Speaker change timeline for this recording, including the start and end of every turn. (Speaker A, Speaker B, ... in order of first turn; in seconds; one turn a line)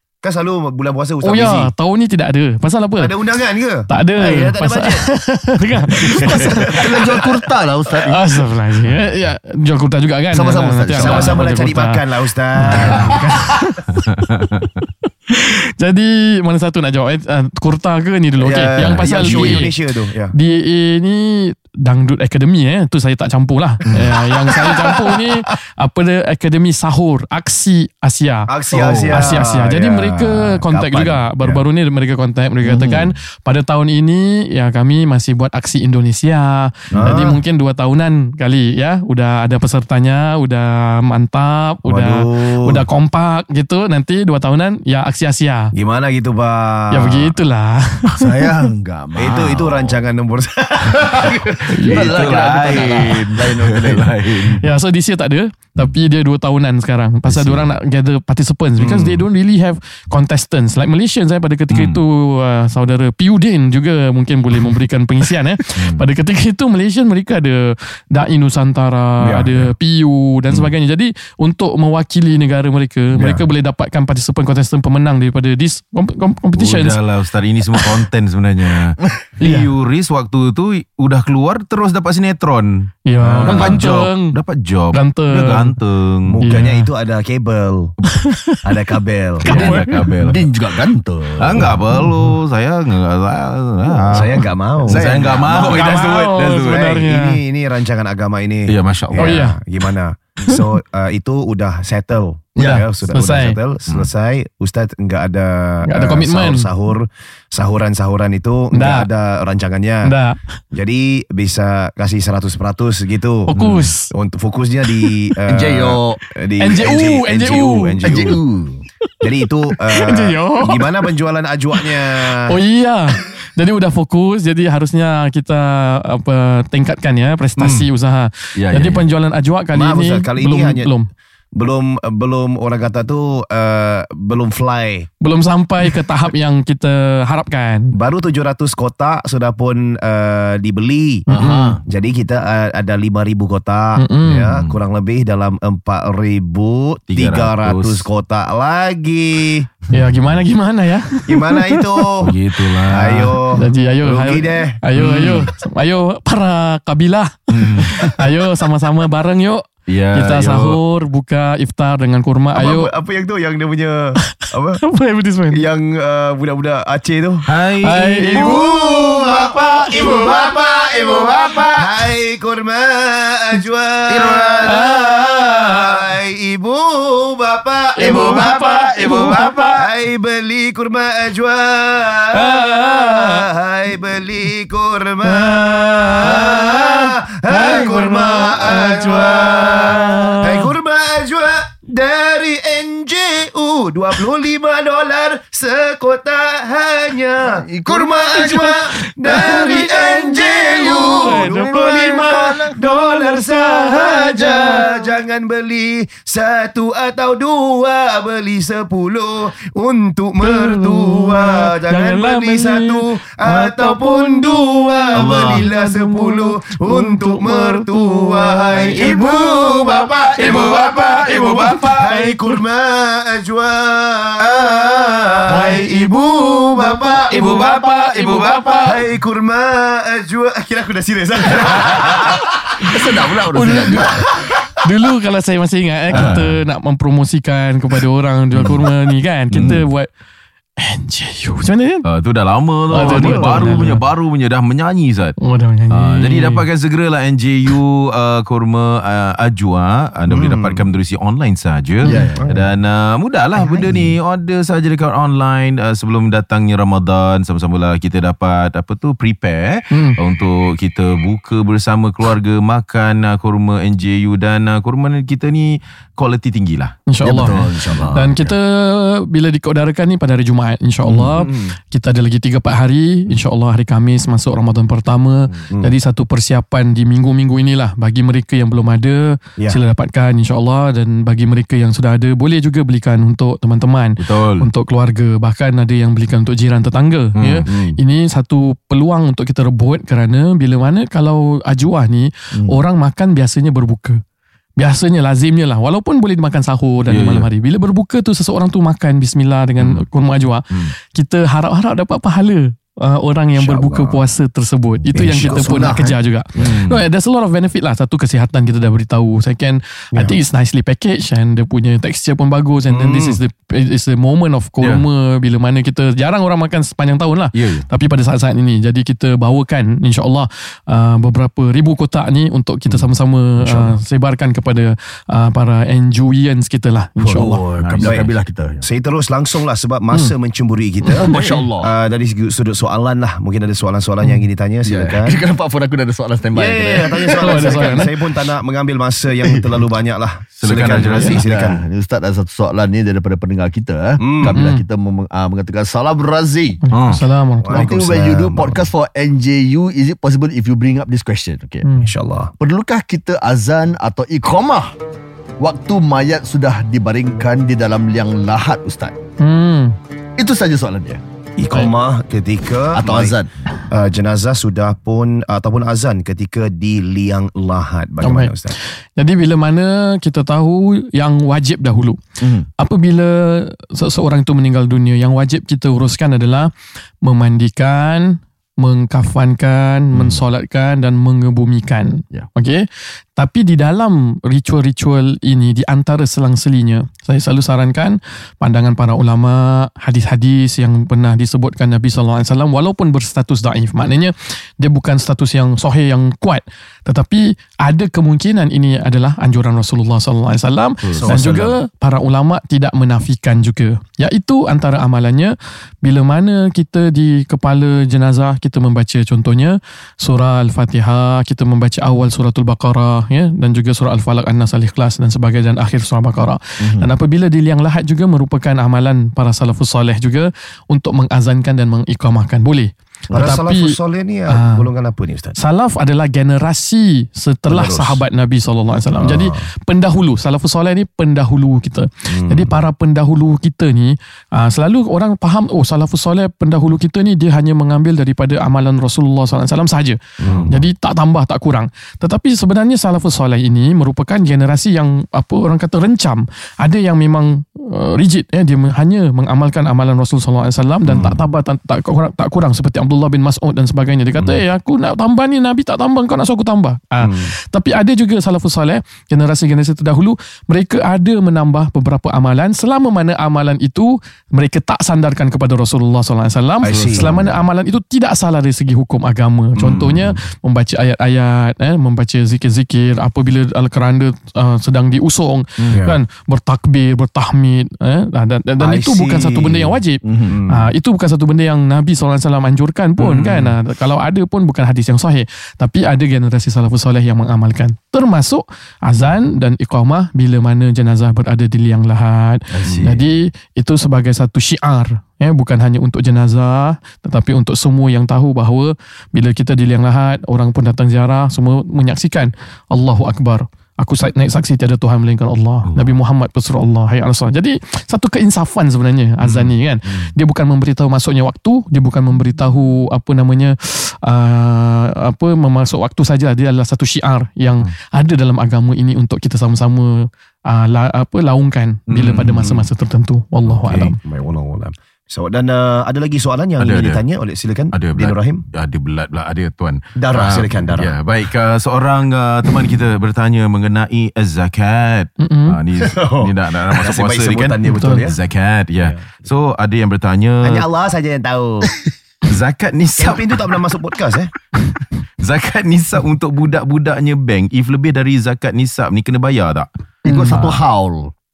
Speaker A: 0.2-1.7
Speaker B: 1.2-3.1
Speaker A: 3.0-5.1
Speaker B: 3.9-6.7
Speaker A: 5.9-7.4
Speaker C: 6.1-8.4
Speaker B: 7.9-12.0
Speaker C: 10.3-11.4
Speaker A: 10.9-13.6
Speaker B: 12.6-14.2
Speaker D: 12.7-13.0
Speaker C: 12.9-13.2
Speaker D: 14.1-14.7
Speaker B: 14.8-19.7
Speaker A: 18.4-20.3
Speaker D: 18.8-19.7
Speaker B: 20.3-45.7
Speaker C: 23.9-25.1
Speaker A: 28.5-31.6
Speaker C: 28.8-29.1
Speaker A: 32.7-33.1
Speaker A: 36.9-37.4
Speaker A: 41.8-42.8
Speaker A: 45.7-47.4
Speaker B: 46.9-48.6
Speaker C: 48.1-50.0
Speaker A: 49.1-51.9
Speaker C: 50.9-54.6
Speaker B: 51.7-52.1
Speaker D: 51.9-54.6
Speaker B: 54.5-77.0
Speaker C: 57.3-57.6
Speaker D: 58.8-59.2
Speaker D: 61.7-62.0
Speaker D: 65.8-66.0
Speaker A: 69.2-69.7
Speaker A: 73.1-73.4
Speaker D: 76.5-82.9
Speaker B: 79.4-79.7
Speaker B: 83.0-84.4
Speaker A: 83.2-83.9
Speaker D: 83.4-86.5
Speaker B: 84.9-85.8
Speaker A: 86.2-87.9
Speaker B: 86.4-86.9
Speaker B: 88.1-88.6
Speaker A: 88.6-89.6
Speaker B: 89.4-90.1
Speaker D: 89.4-90.5
Speaker C: 89.5-91.8
Speaker D: 91.4-96.9
Speaker B: 91.9-92.3
Speaker A: 94.1-110.1
Speaker C: 94.8-95.8
Speaker B: 95.7-97.4
Speaker D: 98.7-99.4
Speaker B: 99.2-99.6
Speaker B: 102.6-103.6
Speaker B: 105.8-106.7
Speaker B: 108.7-109.1
Speaker B: 110.0-110.4
Speaker A: 110.7-113.6
Speaker B: 113.5-114.1
Speaker A: 114.1-118.4
Speaker C: 115.5-116.2
Speaker B: 116.6-118.3
Speaker C: 118.0-118.8
Speaker A: 119.2-122.5
Speaker B: 119.8-121.0
Speaker B: 122.4-131.1
Speaker D: 127.6-127.9
Speaker D: 128.6-129.0
Speaker A: 129.7-130.9
Speaker A: 131.5-135.1
Speaker B: 135.2-137.9
Speaker A: 137.9-141.2
Speaker B: 141.3-141.8
Speaker C: 141.3-141.8
Speaker A: 141.8-149.7
Speaker B: 144.0-144.5
Speaker D: 144.4-144.8
Speaker D: 147.1-148.1
Speaker B: 149.9-152.2
Speaker D: 149.9-150.4
Speaker A: 151.3-154.8
Speaker D: 152.2-153.4
Speaker B: 153.5-162.9
Speaker D: 154.9-155.5
Speaker D: 157.5-158.2
Speaker D: 159.9-160.8
Speaker A: 162.5-164.8
Speaker B: 164.8-165.6
Speaker A: 165.5-167.5
Speaker D: 167.5-168.6
Speaker B: 167.8-168.7
Speaker A: 168.1-220.8
Speaker D: 169.1-171.9
Speaker B: 169.6-170.2
Speaker D: 174.1-174.8
Speaker B: 174.6-175.9
Speaker B: 178.0-179.8
Speaker D: 178.0-179.7
Speaker B: 182.3-183.5
Speaker B: 185.2-190.7
Speaker C: 197.5-198.1
Speaker B: 198.3-202.7
Speaker B: 203.3-205.1
Speaker B: 210.4-214.5
Speaker B: 215.1-222.4
Speaker D: 215.2-215.7
Speaker D: 218.9-222.1
Speaker A: 221.9-227.6
Speaker D: 225.5-225.8
Speaker D: 227.3-228.8
Speaker B: 227.3-229.0
Speaker A: 228.8-232.5
Speaker B: 232.1-232.9
Speaker C: 232.7-234.3
Speaker B: 233.5-240.1
Speaker A: 234.2-234.7
Speaker C: 236.1-236.4
Speaker D: 236.1-236.4
Speaker C: 238.6-238.8
Speaker D: 239.5-239.8
Speaker C: 239.5-239.8
Speaker B: 240.8-242.1
Speaker D: 242.0-245.4
Speaker B: 242.9-244.0
Speaker C: 243.0-243.5
Speaker A: 243.2-243.5
Speaker B: 245.4-246.6
Speaker D: 245.9-268.0
Speaker A: 250.3-250.8
Speaker B: 252.0-252.3
Speaker C: 252.1-252.5
Speaker A: 252.4-252.7
Speaker B: 259.9-260.2
Speaker B: 267.1-294.2
Speaker C: 267.2-268.5
Speaker A: 271.4-271.7
Speaker D: 284.2-284.7
Speaker D: 287.4-287.7
Speaker A: 287.6-288.0
Speaker C: 292.5-292.8
Speaker B: 294.8-327.6
Speaker D: 297.1-297.5
Speaker D: 299.8-300.0
Speaker A: 303.5-304.2
Speaker A: 305.1-306.1
Speaker C: 305.3-306.2
Speaker D: 306.6-307.0
Speaker A: 312.9-313.4
Speaker D: 317.5-317.9
Speaker C: 327.2-328.8
Speaker D: 327.8-328.3
Speaker A: 328.0-328.3
Speaker A: 328.8-335.4
Speaker C: 331.1-331.9
Speaker C: 334.8-338.0
Speaker A: 336.5-341.8
Speaker B: 337.4-338.1
Speaker C: 339.4-339.7
Speaker D: 340.6-341.4
Speaker B: 341.2-341.4
Speaker C: 341.4-346.8
Speaker A: 344.2-344.6
Speaker B: 344.4-344.8
Speaker B: 346.8-347.8
Speaker D: 346.9-347.2
Speaker A: 347.6-348.9
Speaker C: 347.7-351.9
Speaker B: 351.8-352.1
Speaker A: 352.0-352.5
Speaker C: 352.6-354.9
Speaker C: 355.6-359.1
Speaker B: 359.4-360.0
Speaker C: 360.4-361.2
Speaker A: 361.6-363.4
Speaker C: 362.9-363.5
Speaker A: 363.9-368.7
Speaker B: 368.2-372.2
Speaker C: 372.4-372.7
Speaker B: 372.8-376.7
Speaker B: 377.2-424.0
Speaker D: 401.1-401.4
Speaker A: 401.1-401.8
Speaker C: 416.8-417.1
Speaker A: 423.3-425.6
Speaker B: 424.5-424.9
Speaker B: 425.6-524.2
Speaker A: 427.7-428.2
Speaker A: 429.1-429.7
Speaker A: 432.3-432.8
Speaker A: 440.4-440.9
Speaker A: 451.1-451.4
Speaker A: 457.2-457.5
Speaker A: 466.8-467.6
Speaker A: 469.8-470.3
Speaker A: 475.9-476.2
Speaker A: 478.8-480.9
Speaker C: 480.2-480.6
Speaker D: 483.2-483.7
Speaker C: 492.7-493.2
Speaker A: 492.8-493.1
Speaker D: 505.9-506.1
Speaker D: 509.4-509.7
Speaker D: 522.1-522.8
Speaker A: 523.6-528.6
Speaker D: 526.8-527.2
Speaker D: 527.9-540.9
Speaker A: 530.2-531.1
Speaker B: 535.4-535.8
Speaker A: 536.0-538.4
Speaker B: 537.9-538.2
Speaker A: 539.0-539.4
Speaker A: 540.6-541.9
Speaker D: 542.4-543.6
Speaker A: 543.1-544.5
Speaker D: 545.4-549.9
Speaker C: 550.2-551.3
Speaker B: 550.2-550.8